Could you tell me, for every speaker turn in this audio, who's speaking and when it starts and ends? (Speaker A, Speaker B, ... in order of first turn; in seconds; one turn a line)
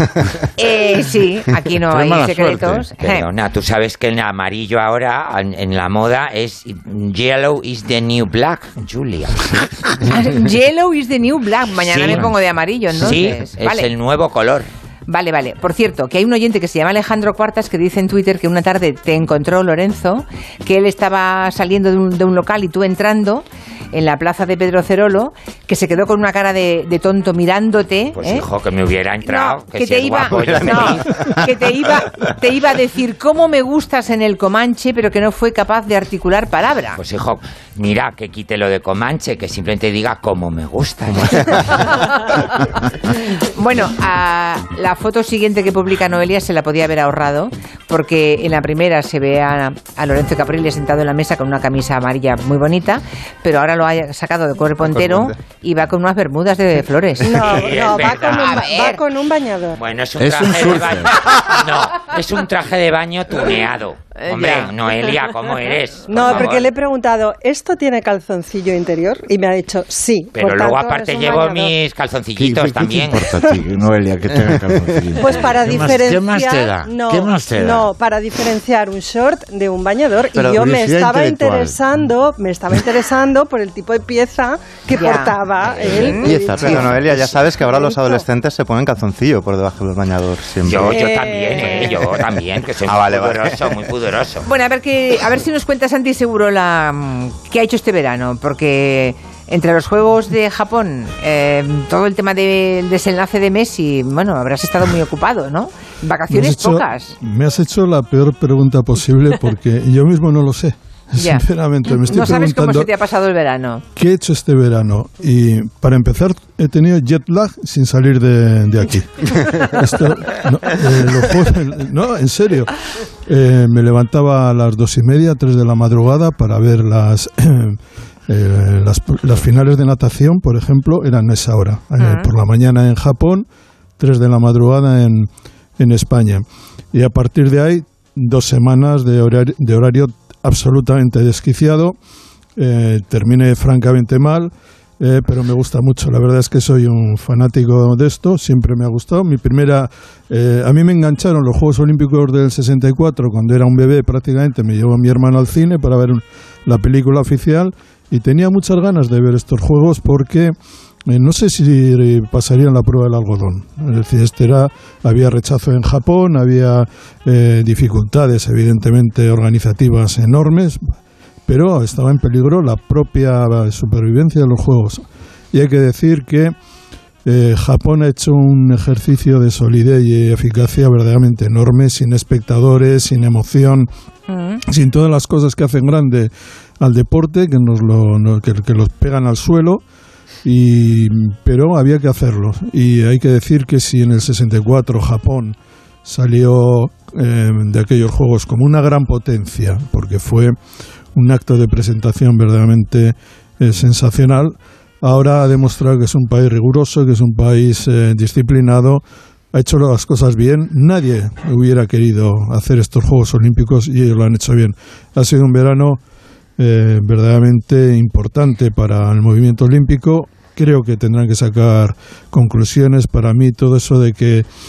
Speaker A: 0.6-3.3
Speaker B: 1.9-2.9
Speaker C: 3.0-9.6
Speaker A: 10.1-13.9
Speaker C: 11.8-12.3
Speaker C: 12.9-14.7
Speaker A: 15.1-28.4
Speaker C: 28.1-31.1
Speaker A: 29.2-37.0
Speaker C: 37.0-41.6
Speaker A: 43.5-59.0
Speaker D: 57.2-59.8
Speaker C: 57.3-58.8
Speaker C: 59.8-66.7
Speaker B: 60.2-61.6
Speaker A: 64.2-64.7
Speaker D: 66.1-71.7
Speaker C: 70.3-73.3
Speaker B: 72.4-77.9
Speaker D: 75.2-87.2
Speaker B: 80.3-81.8
Speaker A: 84.9-86.3
Speaker C: 85.6-86.2
Speaker B: 86.3-87.4
Speaker E: 86.5-91.2
Speaker C: 90.6-94.5
Speaker D: 90.9-92.0
Speaker E: 91.9-92.3
Speaker E: 92.9-93.9
Speaker A: 94.5-107.1
Speaker F: 106.3-112.9
Speaker A: 111.2-113.8
Speaker F: 114.0-122.7
Speaker F: 123.3-127.8
Speaker F: 128.3-133.5
Speaker A: 132.0-132.3
Speaker F: 134.0-142.0
Speaker F: 142.6-160.6
Speaker F: 161.1-170.9
Speaker F: 171.5-176.6
Speaker F: 177.3-183.9
Speaker A: 184.3-184.6
Speaker F: 184.7-189.8
Speaker F: 190.4-200.6
Speaker F: 201.1-216.0
Speaker F: 216.6-224.5